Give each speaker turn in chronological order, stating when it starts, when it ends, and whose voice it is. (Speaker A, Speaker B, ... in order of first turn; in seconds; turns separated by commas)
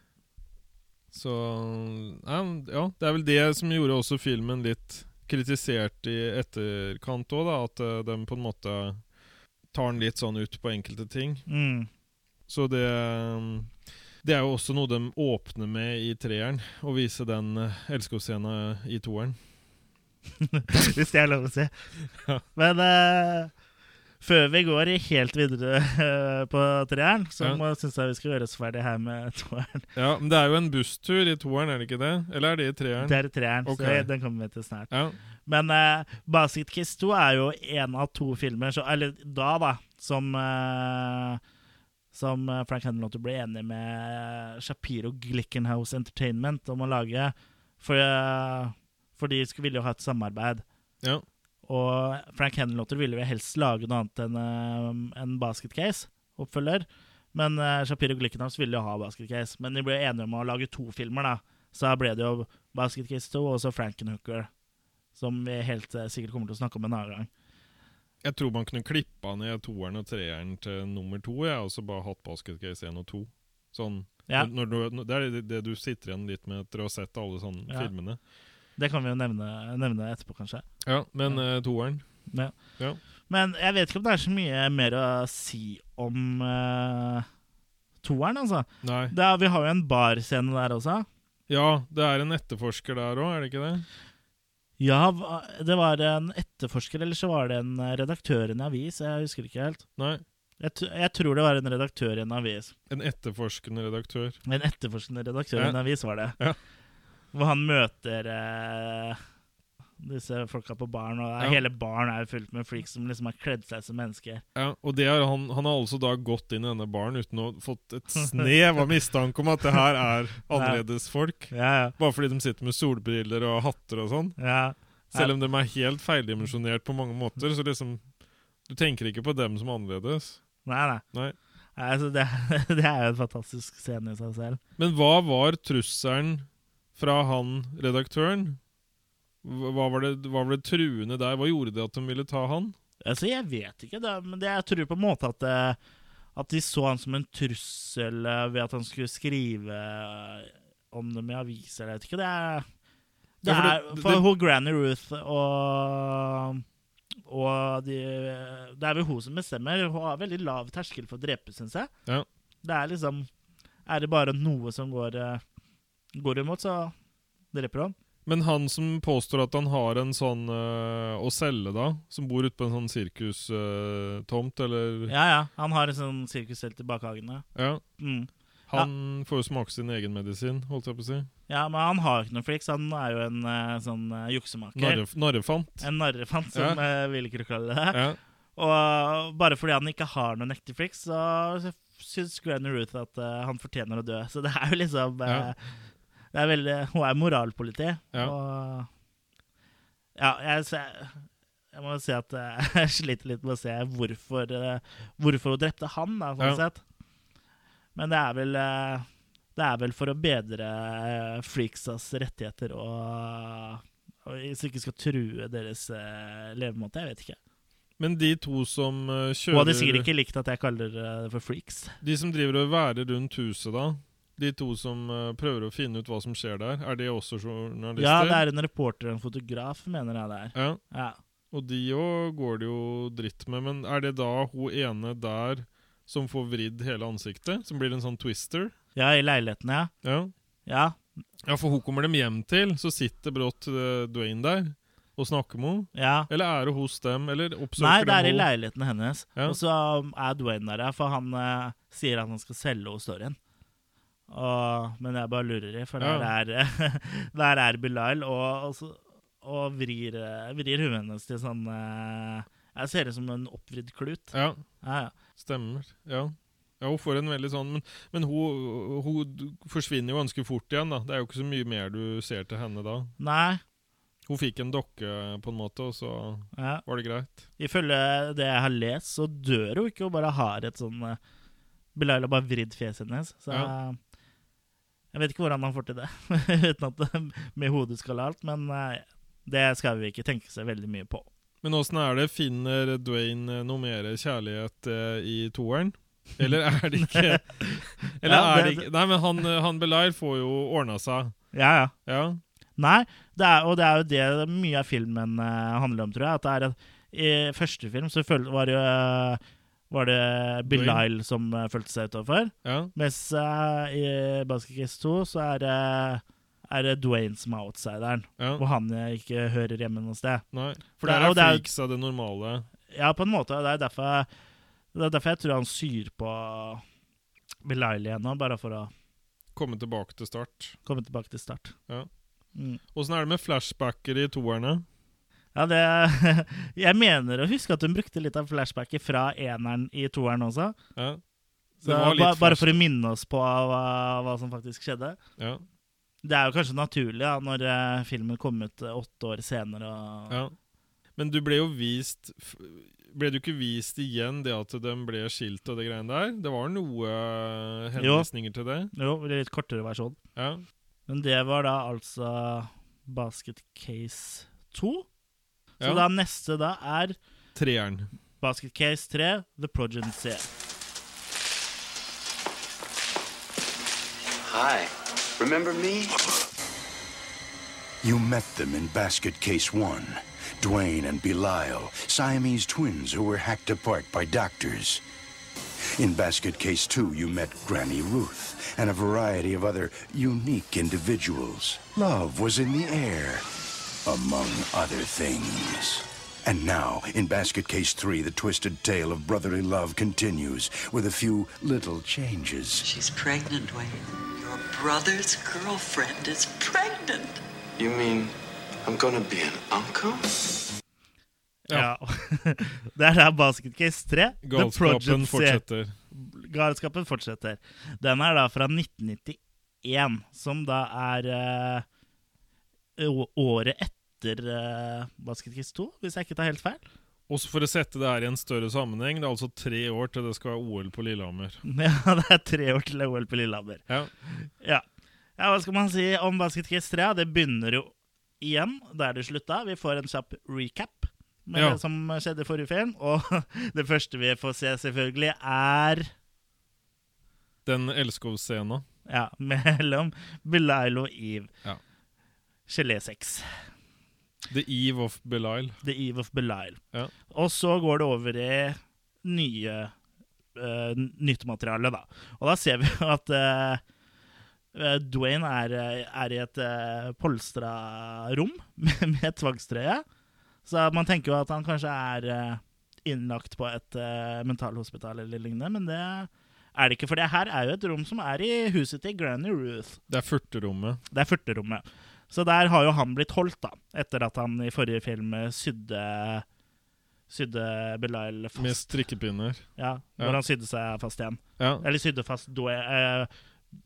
Speaker A: 1.1-9.0, Speaker A: 9.7-11.4, Speaker B: 11.5-11.9, Speaker A: 12.5-13.7, Speaker A: 14.2-19.4, Speaker B: 20.4-21.7, Speaker B: 22.5-23.5, Speaker B: 24.2-29.9, Speaker A: 29.9-34.1, Speaker B: 33.0-34.9, Speaker A: 34.9-35.2, Speaker B: 35.5-41.4, Speaker B: 42.1-50.6, Speaker B: 51.6-64.5, Speaker B: 65.2-67.3, Speaker A: 68.2-78.2, Speaker B: 78.8-80.6, Speaker A: 80.8-82.0, Speaker B: 82.3-82.5, Speaker B: 83.3-87.2, Speaker B: 88.0-91.0, Speaker A: 88.8-89.1, Speaker A: 91.5-93.8, Speaker B: 94.8-99.8, Speaker A: 100.0-100.2, Speaker B: 100.6-102.7, Speaker A: 102.9-104.4, Speaker B: 104.5-106.4, Speaker B: 107.3-109.2, Speaker B: 110.0-114.4, Speaker A: 114.5-124.4, Speaker B: 118.2-118.5, Speaker B: 120.5-120.8, Speaker B: 121.5-122.0, Speaker B: 124.4-125.3, Speaker A: 125.1-128.1, Speaker A: 128.6-130.4, Speaker B: 130.6-131.0, Speaker B: 131.8-134.6, Speaker A: 134.8-138.6, Speaker A: 139.4-142.8, Speaker B: 143.0-145.8, Speaker B: 146.3-152.7, Speaker B: 153.4-156.6, Speaker A: 153.4-154.2, Speaker B: 157.2-161.9, Speaker B: 162.6-163.3, Speaker B: 163.8-165.4, Speaker B: 166.1-166.9, Speaker B: 167.5-167.9, Speaker A: 168.2-175.1, Speaker B: 175.1-177.4, Speaker A: 177.5-177.8, Speaker B: 178.0-178.9, Speaker A: 178.7-181.3, Speaker B: 181.5-185.0, Speaker A: 184.7-185.9, Speaker B: 185.8-188.0, Speaker A: 186.5-186.8, Speaker A: 187.9-188.2, Speaker B: 188.6-195.7, Speaker A: 195.2-195.5, Speaker B: 196.3-198.9, Speaker B: 200.2-206.8, Speaker B: 207.9-217.4, Speaker A: 218.0-220.1, Speaker B: 219.5-221.9, Speaker A: 222.0-228.4, Speaker B: 228.0-231.2, Speaker A: 230.5-230.8, Speaker A: 231.5-238.7, Speaker B: 238.9-239.9, Speaker A: 240.0-240.3, Speaker B: 240.7-241.0, Speaker A: 241.4-248.5, Speaker B: 245.9-246.3, Speaker B: 247.8-253.4, Speaker B: 254.3-265.1, Speaker A: 256.0-256.3, Speaker A: 264.3-264.6, Speaker A: 265.4-273.1, Speaker B: 273.2-273.6, Speaker A: 274.3-277.4, Speaker B: 276.5-276.8, Speaker B: 277.6-281.2, Speaker B: 281.9-284.0, Speaker B: 285.1-291.3, Speaker A: 291.6-301.4, Speaker B: 297.0-298.9, Speaker B: 301.5-301.9, Speaker A: 302.1-302.4, Speaker B: 302.8-320.4, Speaker A: 310.7-311.0, Speaker A: 312.6-312.9, Speaker A: 318.4-318.6, Speaker A: 320.5-322.7, Speaker B: 321.0-321.6, Speaker B: 322.9-324.3, Speaker B: 324.9-326.8, Speaker B: 327.6-328.9, Speaker A: 329.5-330.8, Speaker B: 330.9-331.7, Speaker B: 332.5-332.8, Speaker A: 332.9-334.8, Speaker B: 335.5-340.7, Speaker A: 340.9-341.2, Speaker A: 341.8-342.8, Speaker B: 341.8-345.2, Speaker A: 345.4-345.6, Speaker B: 346.2-350.4, Speaker A: 350.3-350.5, Speaker A: 351.2-358.9, Speaker B: 358.0-358.3, Speaker B: 358.9-360.2, Speaker A: 360.4-360.6, Speaker B: 361.1-365.1, Speaker B: 365.8-367.2, Speaker A: 367.5-368.1, Speaker B: 368.4-370.5, Speaker C: 374.4-376.2, Speaker D: 378.0-385.0, Speaker D: 385.9-393.4, Speaker D: 394.0-402.9, Speaker E: 402.8-407.4, Speaker C: 407.8-408.3, Speaker C: 408.8-410.3, Speaker B: 411.7-415.6, Speaker A: 414.4-415.9, Speaker B: 416.1-421.8, Speaker B: 423.0-426.8, Speaker A: 427.3-431.6, Speaker B: 431.6-434.8, Speaker B: 435.4-446.1, Speaker A: 441.5-441.8, Speaker A: 447.6-448.9, Speaker B: 449.1-451.5, Speaker B: 452.7-453.5, Speaker A: 454.5-455.8, Speaker B: 455.8-459.9, Speaker B: 460.5-463.8, Speaker B: 464.7-470.0, Speaker B: 470.6-480.0, Speaker A: 480.1-481.0, Speaker B: 481.1-486.4, Speaker B: 487.3-488.9, Speaker A: 488.6-489.6, Speaker B: 489.8-493.3, Speaker A: 491.6-491.8